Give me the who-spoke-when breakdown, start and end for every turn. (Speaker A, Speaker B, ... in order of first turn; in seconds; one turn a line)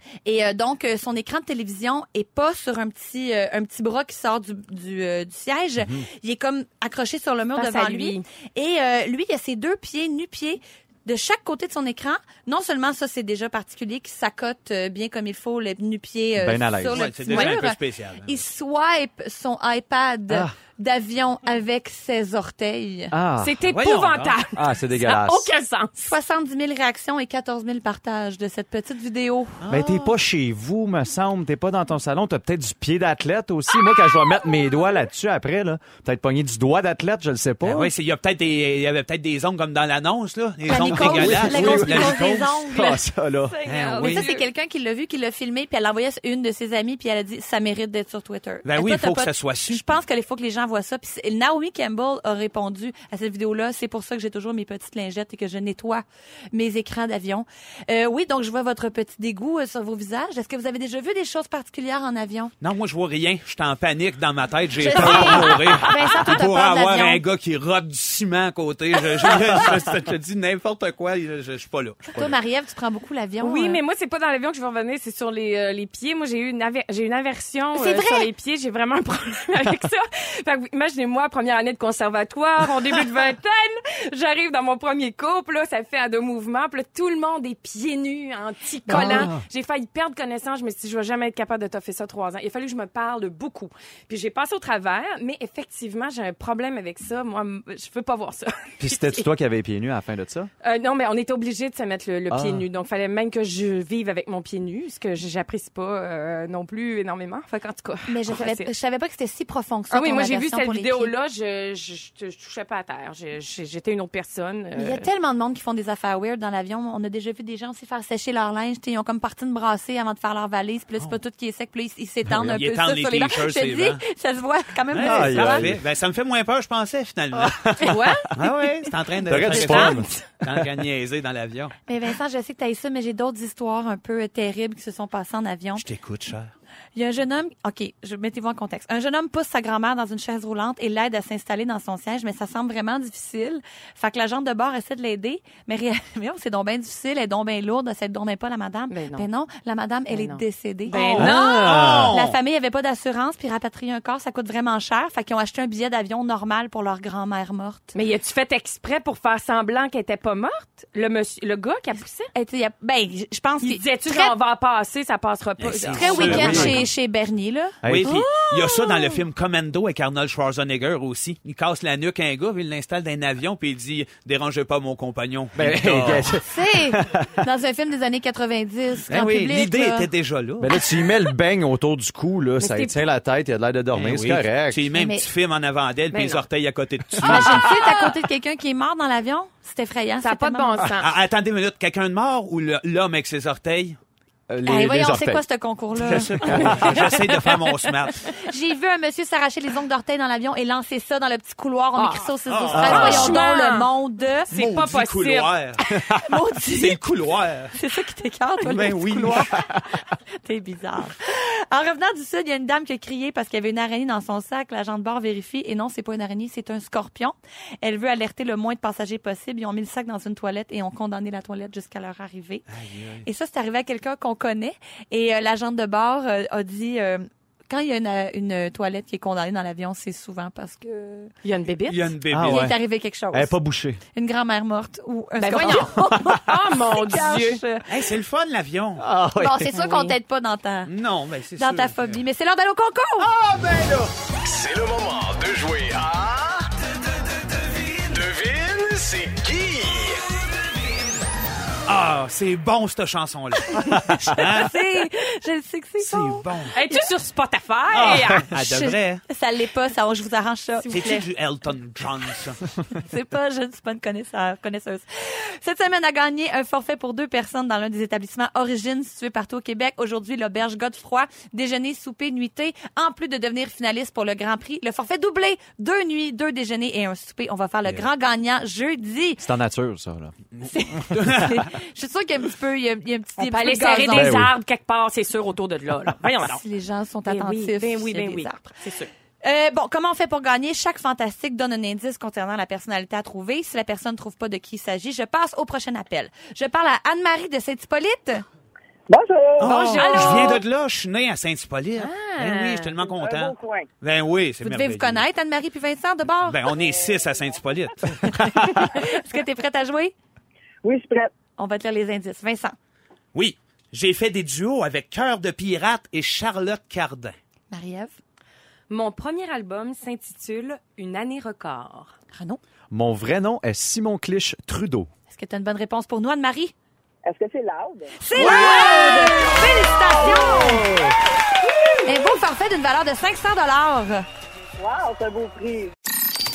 Speaker A: 0.2-23.1
Speaker B: 7.5-8.2
Speaker C: 16.4-17.1
Speaker D: 16.9-18.4
Speaker B: 17.3-17.6
Speaker C: 23.1-23.6
Speaker B: 23.4-25.9
Speaker D: 23.7-24.4
Speaker C: 24.5-25.5
Speaker A: 25.9-29.6
Speaker D: 29.6-30.1
Speaker C: 29.7-37.9
Speaker D: 37.6-42.5
Speaker A: 40.6-43.0
Speaker C: 40.8-43.6
Speaker B: 43.5-44.5
Speaker D: 43.6-44.3
Speaker A: 44.0-62.5
Speaker D: 48.6-49.9
Speaker D: 62.6-72.2
Speaker A: 64.8-67.2
Speaker B: 64.9-66.4
Speaker A: 72.1-73.8
Speaker B: 73.4-99.2
Speaker A: 77.7-78.3
Speaker C: 88.9-89.4
Speaker C: 98.8-100.5
Speaker B: 100.6-108.7
Speaker C: 102.3-102.6
Speaker A: 108.1-111.1
Speaker B: 109.9-115.1
Speaker A: 114.7-125.7
Speaker C: 122.3-122.6
Speaker D: 122.4-124.0
Speaker D: 124.9-131.7
Speaker C: 125.0-125.8
Speaker C: 127.3-128.3
Speaker B: 127.8-128.3
Speaker C: 129.2-130.7
Speaker B: 129.5-130.1
Speaker A: 129.8-130.1
Speaker A: 131.9-135.8
Speaker D: 135.8-136.5
Speaker A: 136.9-157.9
Speaker B: 148.9-149.2
Speaker B: 150.1-151.4
Speaker D: 151.0-152.4
Speaker C: 151.2-152.2
Speaker B: 157.9-162.3
Speaker A: 162.3-164.3
Speaker B: 163.6-166.8
Speaker D: 165.6-166.8
Speaker A: 165.8-169.2
Speaker C: 166.2-166.8
Speaker C: 167.8-168.2
Speaker D: 167.8-176.4
Speaker C: 175.6-177.4
Speaker A: 176.4-180.1
Speaker D: 179.1-180.8
Speaker C: 180.6-184.9
Speaker B: 182.6-183.0
Speaker D: 183.9-187.9
Speaker A: 184.9-185.3
Speaker B: 186.1-186.4
Speaker A: 187.2-190.9
Speaker C: 187.2-187.6
Speaker B: 187.3-187.7
Speaker B: 190.2-191.1
Speaker D: 191.0-194.0
Speaker C: 194.5-195.4
Speaker A: 194.6-197.6
Speaker D: 196.0-198.3
Speaker C: 196.1-197.0
Speaker A: 198.2-204.5
Speaker B: 202.0-203.9
Speaker D: 202.5-203.3
Speaker C: 202.7-203.4
Speaker B: 204.5-205.5
Speaker D: 204.5-205.8
Speaker A: 205.8-207.0
Speaker C: 205.9-206.2
Speaker D: 206.7-207.7
Speaker A: 207.7-209.6
Speaker D: 208.6-209.5
Speaker C: 209.5-209.8
Speaker A: 210.4-222.6
Speaker D: 222.7-223.2
Speaker A: 223.2-231.3
Speaker B: 231.4-232.1
Speaker D: 231.9-232.7
Speaker C: 232.3-232.8
Speaker A: 232.4-233.5
Speaker C: 233.3-234.0
Speaker A: 234.1-237.9
Speaker B: 235.4-237.6
Speaker C: 235.6-236.4
Speaker D: 237.9-239.0
Speaker C: 239.0-239.7
Speaker A: 239.3-240.9
Speaker B: 239.7-240.2
Speaker D: 240.9-242.2
Speaker A: 241.6-243.3
Speaker E: 243.2-250.2
Speaker D: 251.8-254.7
Speaker A: 254.1-257.1
Speaker D: 256.0-256.8
Speaker B: 256.7-258.5
Speaker D: 257.9-259.2
Speaker A: 258.5-261.2
Speaker D: 260.9-262.6
Speaker A: 262.9-279.4
Speaker C: 279.4-280.3
Speaker D: 280.6-281.7
Speaker A: 280.6-284.4
Speaker B: 283.4-286.6
Speaker C: 284.1-284.5
Speaker A: 286.4-288.8
Speaker B: 287.3-289.1
Speaker A: 289.4-298.4
Speaker F: 299.1-299.7
Speaker D: 299.6-305.2
Speaker B: 299.6-300.6
Speaker A: 299.8-300.6
Speaker B: 302.0-303.0
Speaker F: 303.1-303.9
Speaker A: 304.6-306.7
Speaker D: 306.4-308.3
Speaker A: 308.2-310.1
Speaker F: 310.8-311.3
Speaker A: 311.6-312.8
Speaker D: 313.3-317.3
Speaker A: 317.7-318.2
Speaker B: 318.9-322.1
Speaker A: 322.3-322.6
Speaker C: 322.9-325.1
Speaker A: 325.3-326.7
Speaker F: 327.2-328.1
Speaker A: 328.2-330.9
Speaker B: 328.3-329.6
Speaker D: 328.4-329.1
Speaker F: 329.3-331.1
Speaker B: 330.2-330.7
Speaker A: 332.0-334.2
Speaker F: 334.8-335.9